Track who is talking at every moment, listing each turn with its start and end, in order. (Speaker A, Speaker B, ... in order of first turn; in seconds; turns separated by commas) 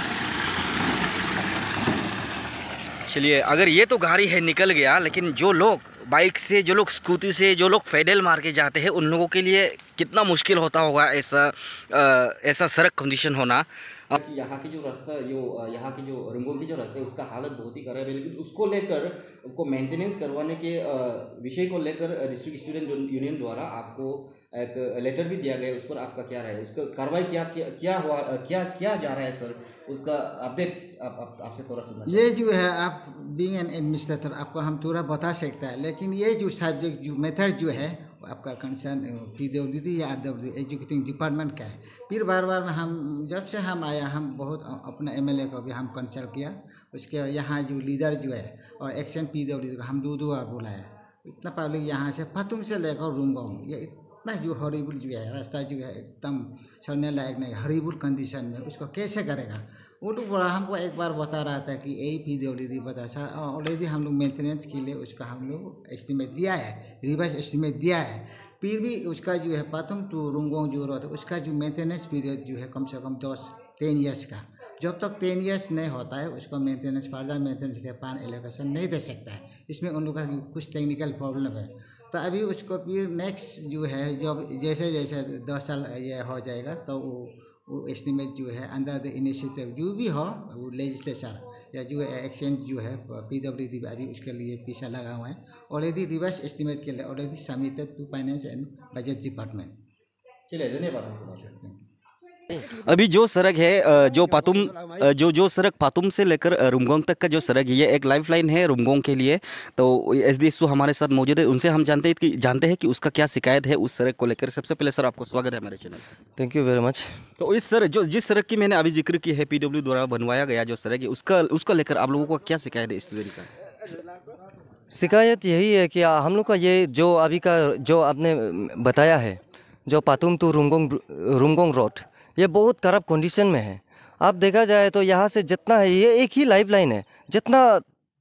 Speaker A: 3.0-32.3, Speaker B: 32.0-99.7, Speaker A: 100.5-101.5, Speaker B: 101.4-101.8, Speaker A: 102.5-116.0, Speaker C: 116.4-117.1, Speaker A: 117.4-123.5, Speaker C: 124.9-137.8